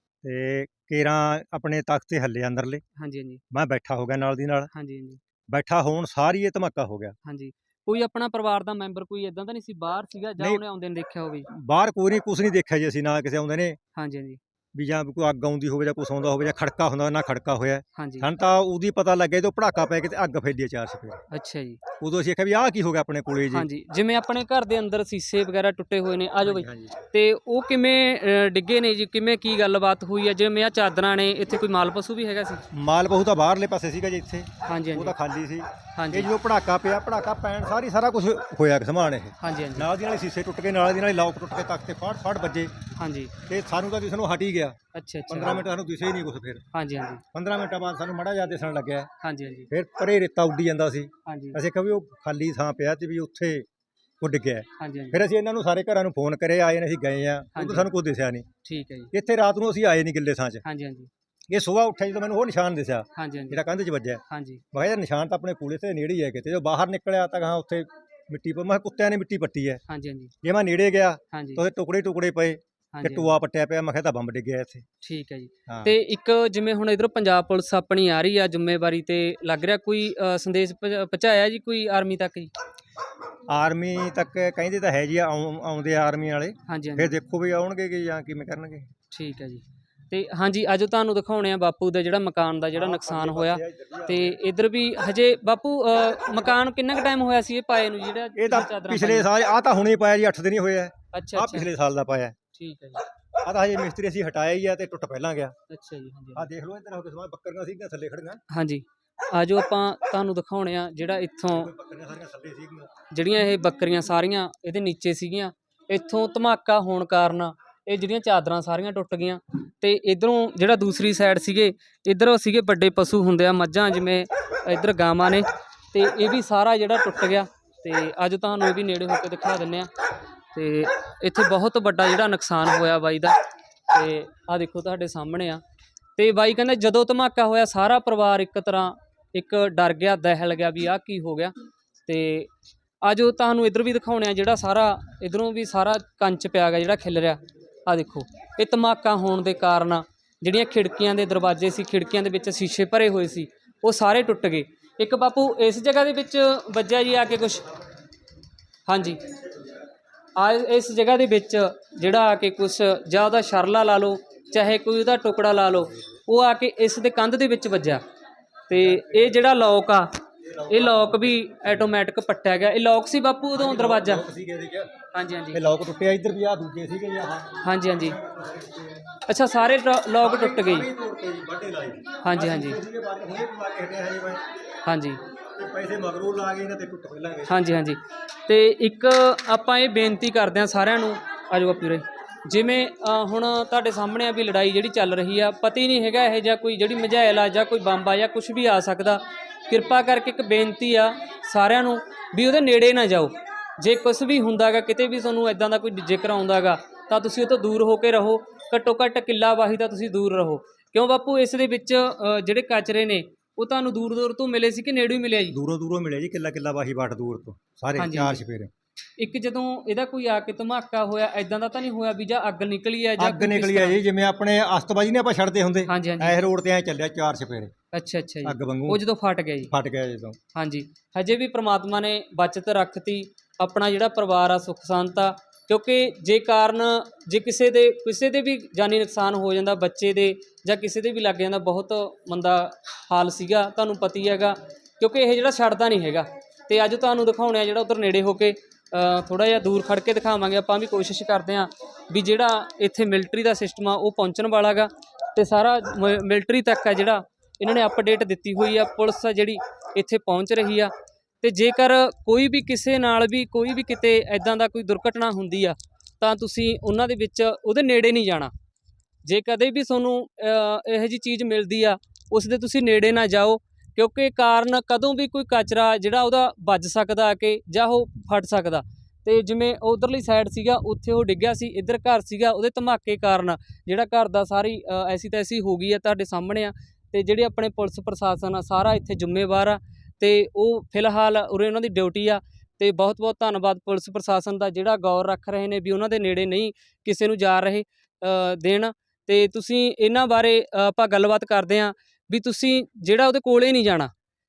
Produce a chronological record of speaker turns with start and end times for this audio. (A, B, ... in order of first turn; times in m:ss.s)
0:00.2-0:02.8 A
0:03.0-0:03.4 B
0:03.5-0:04.7 A
0:04.7-0:05.2 B
0:05.5-0:07.2 A
0:07.2-0:11.5 B
0:11.5-0:13.8 A
0:14.0-0:14.4 B
0:14.7-0:21.2 A
0:18.0-0:18.3 B
0:21.3-0:21.8 B
0:22.0-0:23.7 A
0:23.5-0:32.6 B
0:26.4-0:27.0 A
0:32.7-0:42.7 A
0:34.6-0:35.2 B
0:36.0-0:36.3 B
0:39.4-0:39.9 B
0:43.0-0:43.3 B
0:43.4-0:44.8 A
0:44.9-0:45.6 B
0:45.3-0:46.6 A
0:46.7-0:47.2 B
0:47.3-0:49.1 A
0:49.2-0:49.7 B
0:49.7-0:53.6 A
0:51.3-0:51.6 B
0:54.2-0:58.5 A
0:54.8-0:55.2 B
0:57.5-0:57.9 B
0:58.6-0:59.1 B
0:59.1-1:00.6 A
1:00.6-1:01.1 B
1:01.5-1:04.2 A
1:03.2-1:03.6 B
1:04.3-1:04.6 B
1:04.7-1:09.8 A
1:09.9-1:10.3 B
1:10.4-1:14.8 A
1:11.3-1:11.6 B
1:12.9-1:13.3 B
1:15.0-1:22.5 B
1:15.7-1:15.9 A
1:23.5-1:28.9 A
1:26.7-1:27.1 B
1:29.1-1:39.3 B
1:32.7-1:34.4 A
1:38.4-1:42.4 A
1:41.1-1:41.7 B
1:42.5-1:43.0 B
1:43.4-1:45.5 A
1:45.7-1:46.5 B
1:46.3-1:48.4 A
1:48.5-1:51.7 B
1:51.5-1:52.9 A
1:53.1-2:09.9 B
2:10.5-2:13.4 B
2:13.9-2:15.6 B
2:16.2-2:21.5 B
2:22.1-2:22.5 B
2:23.0-2:37.7 B
2:38.9-2:39.2 B
2:40.4-2:48.0 B
2:48.7-2:54.2 B
2:48.7-2:49.4 A
2:50.4-2:51.6 A
2:53.6-2:54.9 A
2:55.1-2:55.6 B
2:55.5-2:59.1 A
2:57.6-2:58.2 B
2:59.2-3:00.9 B
3:00.2-3:04.4 A
3:02.2-3:02.8 B
3:04.8-3:05.2 B
3:05.6-3:07.8 A
3:07.5-3:35.6 B
3:35.5-3:38.7 A
3:38.0-3:38.4 B
3:39.2-3:44.0 B
3:43.2-3:47.7 A
3:45.9-3:46.4 B
3:47.9-3:49.7 B
3:48.4-3:49.0 A
3:49.7-3:50.4 A
3:50.5-4:28.5 B
4:29.2-5:04.1 B